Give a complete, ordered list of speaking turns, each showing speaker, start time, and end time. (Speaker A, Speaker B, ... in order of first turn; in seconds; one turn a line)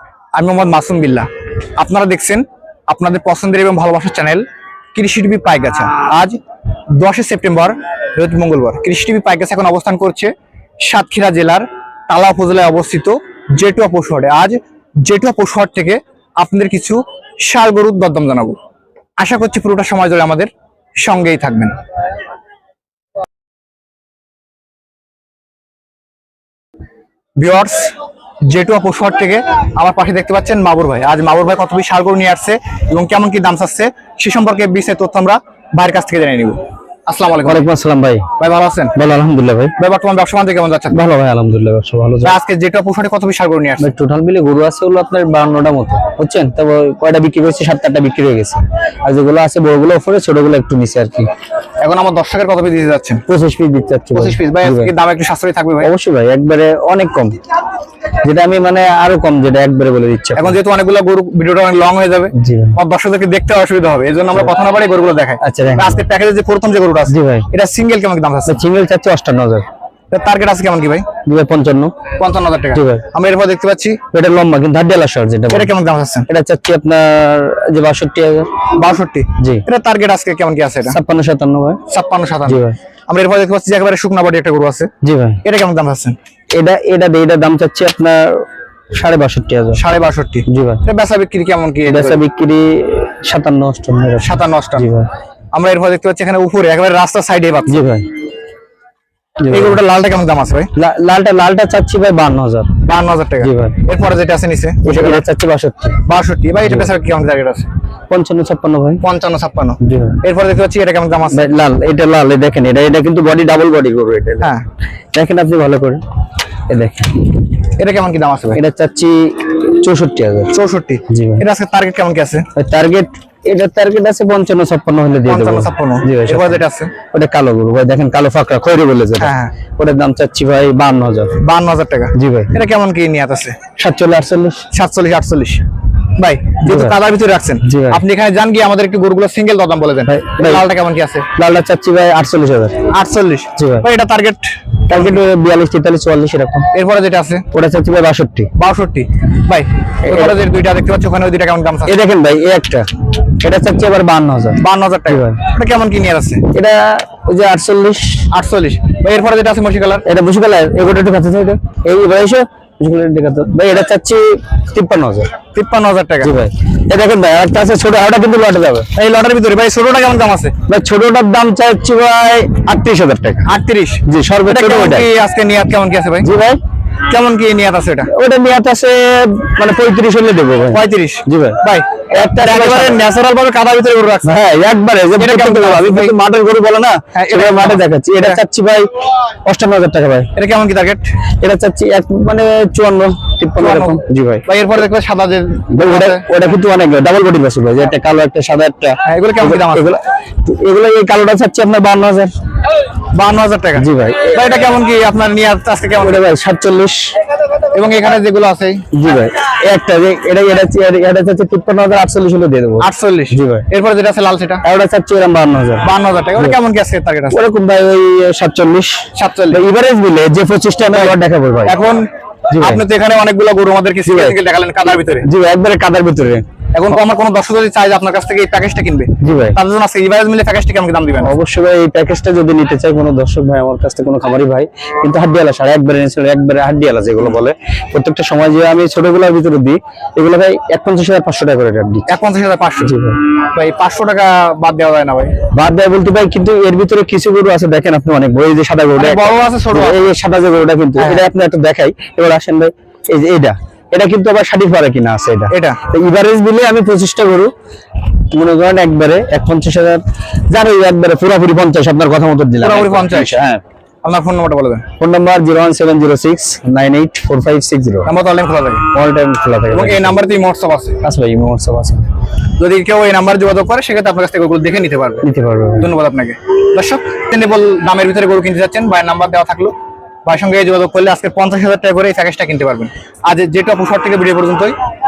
Speaker A: 0.3-1.3
Speaker A: 1.8-6.4
Speaker A: 7.0-10.3
Speaker A: 10.8-18.6
Speaker A: 19.2-20.5
Speaker A: 21.0-21.8
Speaker A: 27.4-27.9
Speaker A: 28.5-37.7
Speaker B: 37.5-38.3
Speaker A: 38.4-38.9
Speaker B: 39.0-39.7
Speaker A: 39.8-41.0
Speaker B: 40.9-42.4
Speaker A: 42.2-43.9
Speaker B: 43.8-51.3
Speaker A: 51.8-53.2
Speaker B: 53.3-54.9
Speaker A: 54.1-55.9
Speaker B: 55.8-57.4
Speaker B: 58.2-60.6
Speaker A: 60.4-68.6
Speaker B: 62.3-62.8
Speaker B: 65.4-66.0
Speaker B: 67.1-67.5
Speaker B: 68.5-69.7
Speaker A: 70.1-71.1
Speaker B: 71.3-71.9
Speaker A: 72.2-74.0
Speaker B: 72.7-73.0
Speaker B: 74.1-75.7
Speaker A: 75.5-76.3
Speaker B: 76.3-78.5
Speaker A: 78.8-81.0
Speaker B: 79.4-79.6
Speaker B: 80.9-81.8
Speaker A: 81.9-84.9
Speaker B: 82.5-82.8
Speaker B: 85.0-85.4
Speaker A: 85.4-86.2
Speaker B: 86.5-89.8
Speaker A: 89.8-92.2
Speaker B: 90.5-90.8
Speaker B: 91.9-95.1
Speaker A: 94.2-94.9
Speaker A: 95.5-97.8
Speaker B: 97.7-98.1
Speaker B: 99.4-99.8
Speaker A: 99.5-100.7
Speaker B: 100.8-102.7
Speaker A: 102.8-105.3
Speaker B: 103.4-103.8
Speaker B: 104.8-106.0
Speaker A: 106.0-107.7
Speaker B: 108.1-109.0
Speaker A: 109.0-111.5
Speaker B: 109.8-110.2
Speaker B: 111.3-114.5
Speaker B: 115.1-116.0
Speaker B: 116.7-117.3
Speaker A: 117.8-118.6
Speaker B: 118.5-120.5
Speaker A: 120.5-122.5
Speaker B: 121.1-121.4
Speaker B: 122.6-131.4
Speaker A: 125.3-126.9
Speaker A: 129.2-129.5
Speaker A: 131.4-133.6
Speaker B: 132.2-132.5
Speaker B: 133.8-134.6
Speaker A: 134.7-135.6
Speaker A: 136.2-141.3
Speaker B: 136.6-137.0
Speaker B: 137.6-138.0
Speaker B: 140.1-140.7
Speaker B: 141.4-142.9
Speaker A: 142.9-145.2
Speaker B: 143.6-143.9
Speaker B: 144.9-146.7
Speaker A: 146.7-147.4
Speaker B: 147.5-148.5
Speaker A: 148.6-152.0
Speaker B: 150.1-150.4
Speaker B: 151.9-155.4
Speaker A: 154.6-156.5
Speaker B: 156.5-158.3
Speaker A: 158.3-160.1
Speaker B: 160.1-165.3
Speaker A: 165.5-166.3
Speaker B: 166.2-168.9
Speaker A: 168.9-170.5
Speaker B: 170.7-173.5
Speaker A: 173.4-176.3
Speaker B: 174.1-175.1
Speaker B: 176.2-176.6
Speaker A: 177.1-178.1
Speaker B: 178.1-181.6
Speaker A: 180.7-184.3
Speaker B: 182.1-183.0
Speaker B: 184.2-190.3
Speaker A: 185.2-186.2
Speaker A: 187.1-188.4
Speaker A: 190.4-191.1
Speaker B: 191.4-194.4
Speaker A: 193.6-196.5
Speaker B: 195.7-202.3
Speaker A: 199.1-199.9
Speaker A: 203.1-206.2
Speaker B: 203.8-204.4
Speaker B: 206.0-207.1
Speaker A: 207.7-208.8
Speaker B: 208.9-213.7
Speaker A: 212.8-214.6
Speaker B: 214.6-216.6
Speaker A: 215.8-217.4
Speaker B: 217.3-221.8
Speaker A: 219.2-219.6
Speaker A: 220.9-225.3
Speaker B: 222.5-222.8
Speaker B: 224.1-224.4
Speaker B: 225.2-226.4
Speaker A: 226.7-231.4
Speaker B: 229.2-229.6
Speaker B: 231.2-242.1
Speaker A: 242.1-245.3
Speaker B: 242.8-243.2
Speaker B: 245.5-257.5
Speaker A: 249.0-250.1
Speaker A: 251.0-251.3
Speaker A: 255.5-255.8
Speaker B: 258.1-263.6
Speaker A: 262.6-263.4
Speaker A: 264.0-264.9
Speaker B: 265.0-268.1
Speaker A: 268.1-268.9
Speaker B: 268.9-270.2
Speaker A: 269.7-271.0
Speaker B: 271.0-272.1
Speaker A: 272.6-275.3
Speaker B: 275.2-275.9
Speaker A: 275.8-279.7
Speaker A: 280.3-284.7